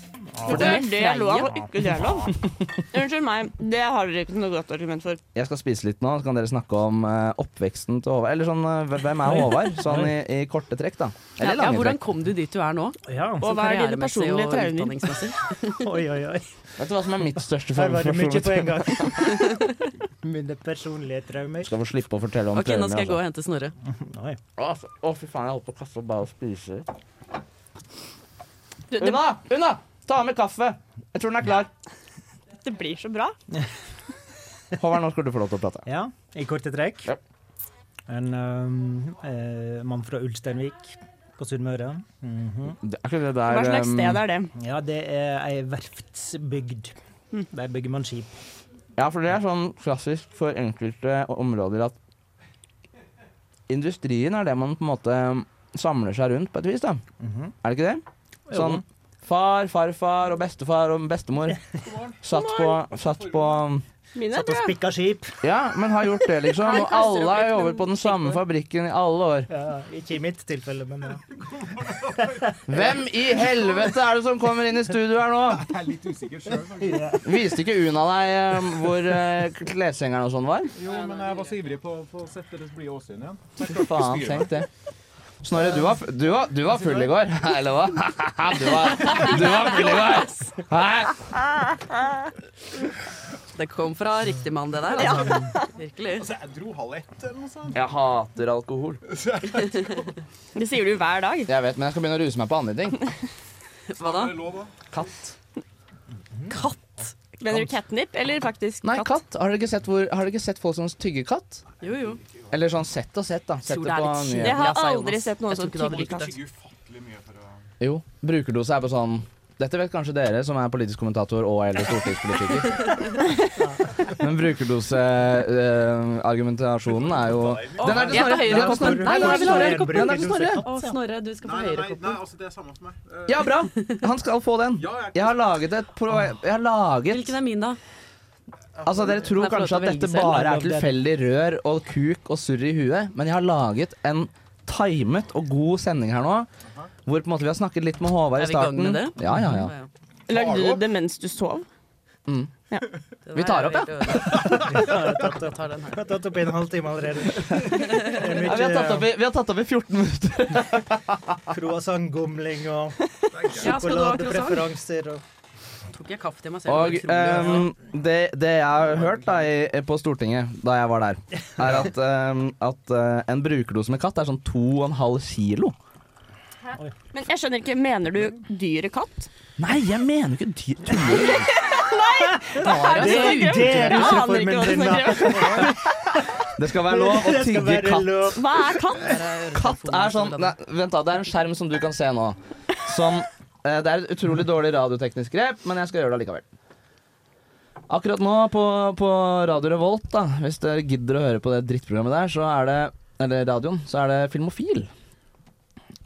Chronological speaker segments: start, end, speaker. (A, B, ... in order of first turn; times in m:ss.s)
0:00.3-0:00.7 A
0:00.4-0:01.5 B
0:00.5-0:05.2 C
0:05.3-0:12.0 D
0:09.6-0:10.1 A
0:11.4-0:15.8 B
0:13.1-0:13.5 A
0:13.4-0:15.2 C
0:15.8-0:16.5 A
0:16.8-0:19.2 D
0:17.7-0:19.4 A
0:20.2-0:21.7 A
0:21.6-0:23.2 D
0:22.5-0:23.7 B
0:23.8-0:24.4 A
0:24.6-0:26.9 D
0:28.9-0:29.2 C
0:29.0-0:31.7 D
0:32.6-0:33.4 C
0:34.8-0:35.8 D
0:35.8-0:37.1 A
0:38.1-0:42.8 A
0:42.8-0:44.2 D
0:43.4-0:44.5 C
0:44.5-0:48.4 A
0:49.0-0:52.0 D
0:53.7-0:57.0 D
0:57.2-0:57.5 A
0:57.6-1:01.6 D
0:58.5-0:58.8 A
1:01.8-1:03.7 E
1:02.2-1:03.8 D
1:04.1-1:04.8 C
1:04.3-1:05.3 A
1:05.4-1:09.5 D
1:06.5-1:08.3 C
1:09.5-1:11.2 A
1:11.3-1:13.9 E
1:12.7-1:15.7 D
1:15.4-1:17.2 E
1:16.8-1:17.2 A
1:17.2-1:20.7 D
1:20.8-1:24.6 E
1:20.8-1:21.5 B
1:23.6-1:24.7 D
1:25.4-1:31.4 D
1:33.5-1:36.3 B
1:34.9-1:35.7 C
1:36.1-1:37.9 E
1:37.7-1:39.0 D
1:39.1-1:40.1 E
1:40.5-1:41.5 C
1:41.5-1:43.0 D
1:43.9-1:44.4 B
1:44.0-1:44.7 E
1:44.9-1:45.3 D
1:46.5-1:49.2 C
1:47.4-1:47.7 D
1:48.8-1:51.6 D
1:51.8-1:52.2 B
1:52.5-1:54.6 D
1:53.6-1:56.3 B
1:54.3-1:56.3 C
1:55.8-1:57.6 E
1:57.8-2:02.9 D
2:04.1-2:10.6 D
2:06.8-2:08.4 E
2:07.8-2:12.2 B
2:07.9-2:11.0 A
2:11.4-2:13.7 E
2:13.3-2:17.4 D
2:14.7-2:15.4 E
2:17.1-2:17.8 B
2:18.8-2:19.3 E
2:18.8-2:26.5 D
2:19.2-2:20.4 B
2:20.2-2:20.9 A
2:27.0-2:29.7 D
2:28.4-2:29.9 B
2:30.3-2:31.6 C
2:30.3-2:30.9 E
2:32.3-2:32.5 D
2:33.2-2:36.2 B
2:33.3-2:34.7 D
2:34.5-2:39.1 A
2:38.0-2:40.8 D
2:41.5-2:43.0 A
2:43.3-2:43.7 E
2:43.6-2:45.2 A
2:43.6-2:44.7 B
2:45.9-2:47.7 B
2:46.6-2:55.7 D
2:57.1-2:59.3 C
2:59.6-3:01.5 D
3:01.0-3:05.9 C
3:02.3-3:08.5 A
3:02.6-3:04.3 B
3:06.6-3:08.4 D
3:08.4-3:09.2 C
3:09.0-3:10.5 B
3:09.5-3:16.5 D
3:17.9-3:24.9 D